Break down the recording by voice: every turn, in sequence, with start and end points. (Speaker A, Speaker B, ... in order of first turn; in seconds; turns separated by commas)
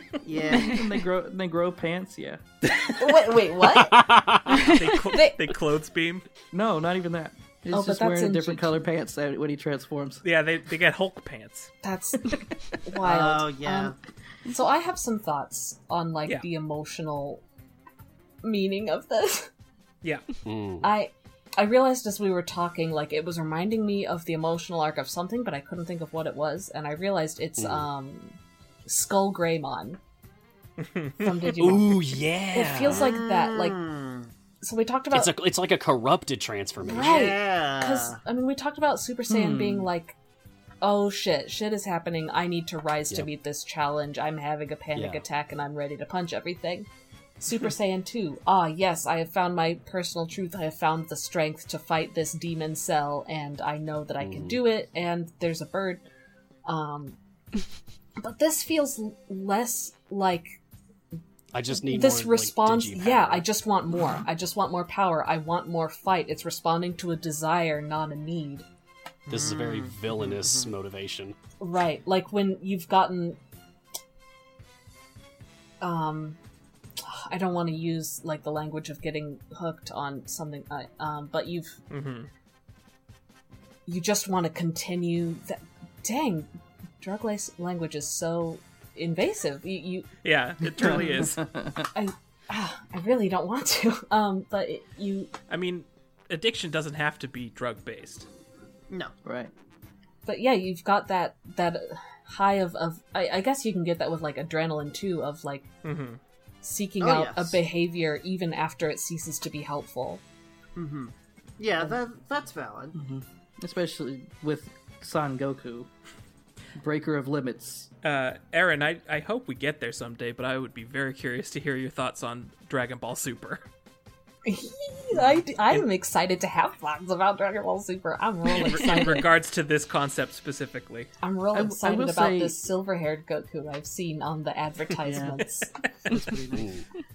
Speaker A: 0.2-0.8, Speaker B: 0.5-2.4, Speaker C: 2.9-4.0, Speaker D: 3.6-4.8, Speaker E: 4.5-6.2, Speaker C: 4.9-5.4, Speaker B: 6.5-10.2, Speaker C: 7.7-8.8, Speaker E: 10.2-11.7, Speaker C: 11.8-13.9, Speaker A: 13.0-13.9, Speaker C: 14.4-17.4, Speaker C: 18.4-19.5, Speaker D: 20.4-20.9, Speaker C: 20.8-30.0, Speaker D: 27.6-27.9, Speaker E: 30.8-31.1, Speaker C: 31.2-33.8, Speaker D: 31.5-33.1, Speaker A: 32.9-34.3, Speaker C: 34.6-35.3, Speaker D: 35.1-37.3, Speaker C: 36.8-40.1, Speaker A: 36.8-38.2, Speaker B: 39.3-39.9, Speaker C: 40.8-46.9, Speaker D: 44.9-45.2, Speaker C: 47.4-56.0, Speaker D: 54.2-54.6, Speaker C: 56.6-57.2, Speaker C: 58.2-60.5, Speaker D: 61.5-63.5, Speaker C: 61.8-68.7, Speaker A: 69.3-70.7, Speaker D: 69.3-71.4, Speaker C: 71.6-73.4, Speaker C: 75.8-76.4, Speaker C: 77.0-81.8, Speaker E: 81.9-82.3, Speaker C: 83.8-86.5, Speaker C: 87.0-90.1, Speaker E: 90.2-91.4, Speaker B: 90.7-91.9, Speaker C: 91.9-95.3, Speaker E: 95.5-98.3, Speaker B: 99.2-99.5, Speaker C: 100.2-105.7, Speaker E: 105.8-106.2, Speaker C: 106.6-110.2, Speaker A: 107.0-107.6, Speaker A: 110.8-113.0, Speaker B: 112.9-115.9, Speaker B: 116.8-117.9, Speaker E: 118.0-123.6, Speaker C: 124.4-129.3, Speaker E: 128.5-131.1, Speaker C: 131.2-135.7, Speaker B: 131.5-132.6, Speaker B: 135.0-135.4, Speaker B: 136.1-136.7, Speaker D: 136.5-136.8